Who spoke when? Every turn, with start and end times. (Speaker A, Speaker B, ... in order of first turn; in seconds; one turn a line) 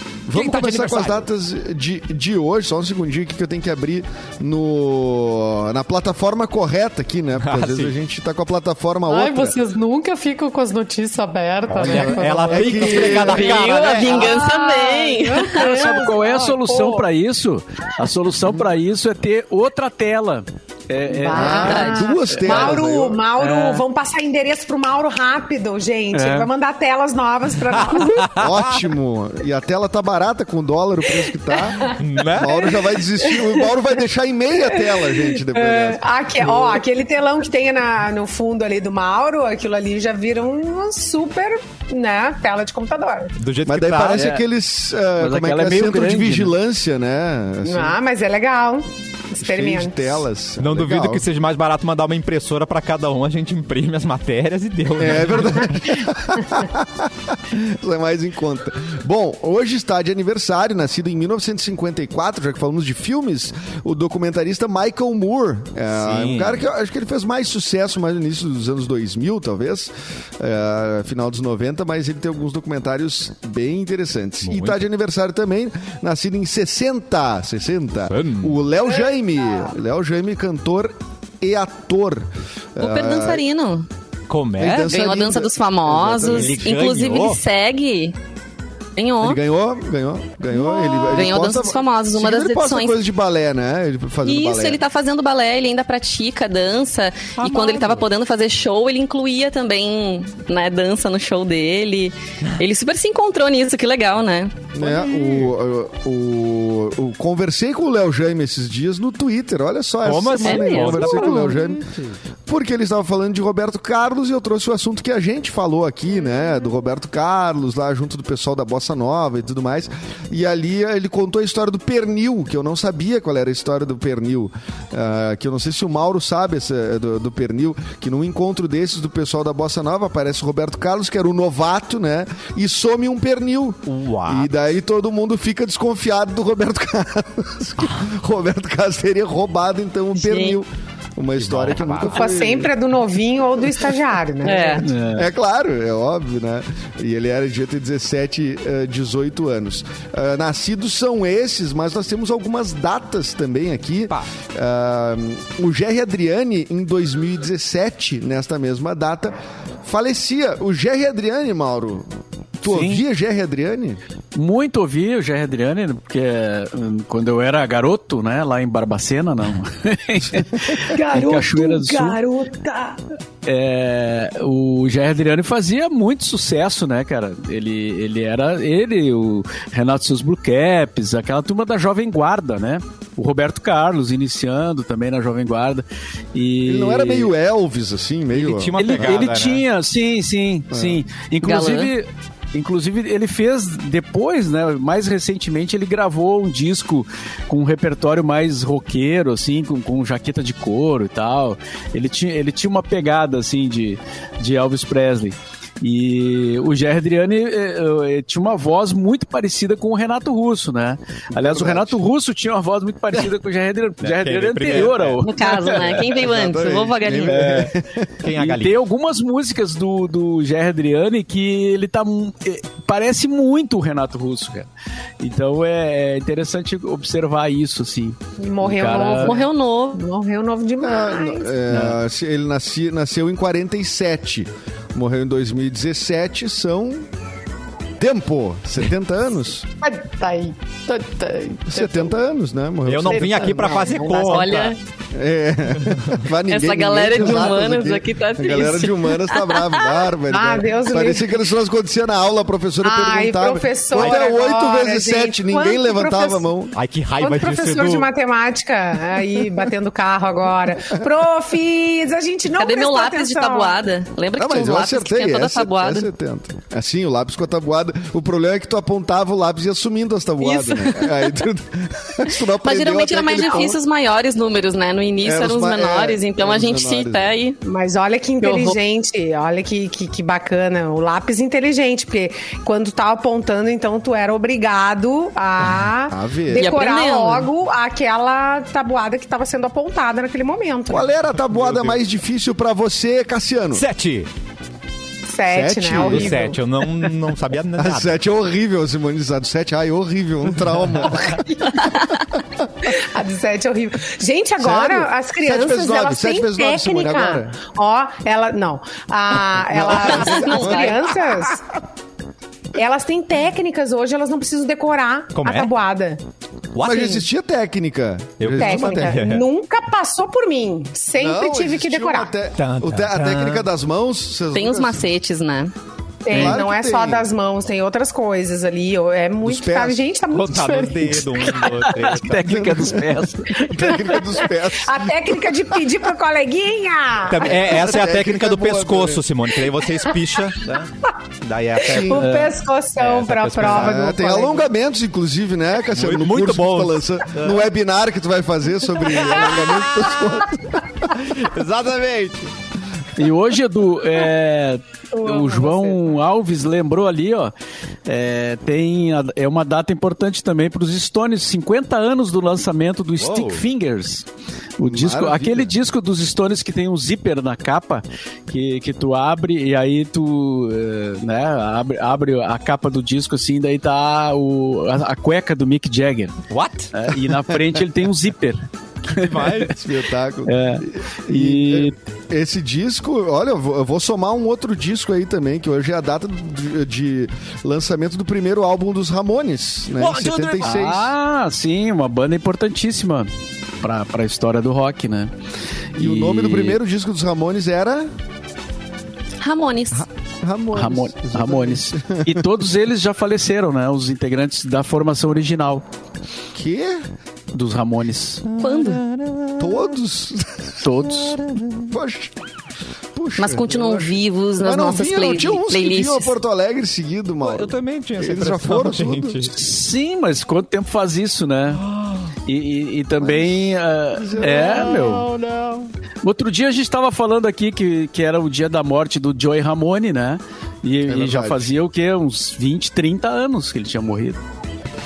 Speaker A: 0.3-9.6
Speaker B: 0.3-1.3
Speaker B: 7.4-7.9
Speaker C: 9.1-17.0
Speaker A: 11.7-13.6
Speaker B: 11.7-14.3
Speaker D: 13.0-16.0
Speaker E: 15.5-23.8
Speaker C: 21.0-28.3
Speaker A: 21.3-23.2
Speaker D: 21.4-22.1
Speaker E: 26.1-26.5
Speaker B: 27.7-28.7
Speaker A: 28.4-36.8
Speaker C: 31.7-33.7
Speaker B: 31.9-32.6
Speaker C: 34.5-43.4
Speaker B: 43.4-44.3
Speaker A: 43.7-48.0
Speaker E: 44.1-44.4
Speaker E: 45.2-46.5
Speaker C: 47.6-50.3
Speaker A: 49.4-51.2
Speaker B: 50.6-55.9
Speaker A: 55.0-83.4
Speaker B: 65.9-66.7
Speaker B: 74.5-74.8
Speaker B: 78.1-78.6
Speaker C: 79.0-79.7
Speaker D: 82.8-83.9
Speaker B: 84.3-84.9
Speaker A: 84.6-86.6
Speaker D: 84.8-88.2
Speaker B: 86.3-87.4
Speaker D: 89.0-89.4
Speaker A: 89.2-94.8
Speaker D: 90.5-93.0
Speaker D: 94.2-104.5
Speaker B: 97.4-98.1
Speaker A: 104.7-111.9
Speaker B: 104.8-105.5
Speaker B: 110.0-112.2
Speaker D: 110.4-111.6
Speaker A: 112.5-142.7
Speaker B: 133.9-134.6
Speaker D: 140.2-140.6
Speaker B: 141.4-142.3
Speaker C: 142.1-144.9
Speaker D: 144.4-144.9
Speaker E: 144.8-145.3
Speaker A: 145.1-162.1
Speaker A: 162.6-164.0
Speaker E: 162.7-163.0
Speaker E: 164.3-172.2
Speaker C: 170.9-173.0
Speaker E: 173.4-187.3
Speaker A: 186.7-189.0
Speaker B: 188.3-189.7
Speaker E: 188.8-216.1
Speaker A: 190.7-191.0
Speaker D: 191.4-191.9
Speaker A: 211.3-212.0
Speaker B: 214.0-215.2
Speaker D: 215.2-217.7
Speaker A: 216.1-218.1
Speaker E: 217.3-217.7
Speaker B: 218.2-218.8
Speaker E: 218.3-224.7
Speaker E: 225.2-229.4
Speaker C: 228.4-231.6
Speaker D: 229.2-230.0
Speaker A: 230.8-237.1
Speaker E: 231.7-232.0
Speaker A: 238.0-239.7
Speaker C: 239.8-242.1
Speaker A: 241.7-244.2
Speaker B: 242.9-244.8
Speaker C: 243.3-244.4
Speaker D: 244.1-244.8
Speaker A: 245.1-256.8
Speaker B: 245.8-246.2
Speaker D: 246.5-249.9
Speaker C: 250.3-251.4
Speaker C: 252.8-256.4
Speaker B: 254.0-254.3
Speaker B: 256.7-258.1
Speaker C: 257.2-263.8
Speaker D: 262.5-266.1
Speaker A: 264.4-273.8
Speaker D: 270.4-271.3
Speaker D: 272.6-277.6
Speaker A: 275.2-277.3
Speaker C: 277.6-291.1
Speaker D: 278.4-278.8
Speaker A: 286.1-286.7
Speaker D: 286.5-287.5
Speaker A: 290.9-293.8
Speaker B: 291.5-292.0
Speaker B: 293.7-294.3
Speaker C: 295.3-296.6
Speaker A: 295.5-296.5
Speaker B: 296.0-298.1
Speaker A: 297.8-302.0
Speaker B: 301.0-301.3
Speaker C: 301.3-301.8
Speaker D: 301.9-302.2
Speaker C: 302.8-311.6
Speaker A: 304.6-307.6
Speaker A: 309.7-311.0
Speaker B: 309.8-310.7
Speaker D: 309.9-311.0
Speaker C: 312.7-316.2
Speaker B: 315.4-315.7
Speaker B: 316.7-317.2
Speaker A: 316.8-319.2
Speaker B: 318.4-319.5
Speaker C: 318.6-322.3
Speaker A: 321.2-325.1
Speaker B: 322.6-323.7
Speaker D: 324.5-325.7
Speaker C: 326.2-331.6
Speaker A: 326.3-327.3
Speaker B: 326.3-326.6
Speaker A: 329.4-330.0
Speaker B: 330.3-332.6
Speaker E: 331.6-333.7
Speaker A: 332.4-335.6
Speaker C: 333.6-337.7
Speaker B: 337.3-342.3
Speaker A: 337.4-339.2
Speaker C: 341.8-344.7
Speaker A: 341.9-342.2
Speaker E: 342.2-342.5
Speaker B: 343.0-344.0
Speaker A: 343.6-351.0
Speaker B: 345.9-347.7
Speaker B: 349.0-352.5
Speaker E: 353.2-357.5
Speaker C: 355.1-356.0
Speaker E: 358.1-364.3
Speaker B: 363.2-363.6
Speaker E: 364.8-376.4
Speaker A: 364.8-365.7
Speaker B: 376.5-376.9
Speaker E: 376.9-379.7
Speaker B: 379.1-379.8
Speaker A: 379.7-391.1
Speaker E: 380.5-381.9
Speaker B: 390.0-390.8
Speaker E: 390.6-395.3
Speaker E: 395.9-396.8
Speaker A: 396.0-398.1
Speaker D: 399.4-400.1
Speaker A: 400.0-402.4
Speaker E: 400.7-405.8
Speaker A: 406.6-407.1
Speaker E: 407.5-408.4
Speaker B: 408.5-409.9
Speaker D: 408.6-409.0
Speaker A: 409.6-412.4
Speaker E: 410.8-411.4
Speaker A: 413.1-419.5
Speaker D: 413.4-416.4
Speaker B: 417.4-419.5
Speaker E: 419.6-421.8
Speaker B: 421.8-422.3
Speaker E: 422.5-425.3
Speaker A: 423.2-423.6
Speaker A: 424.1-425.0
Speaker B: 424.4-425.9
Speaker E: 426.2-434.4
Speaker A: 431.1-431.7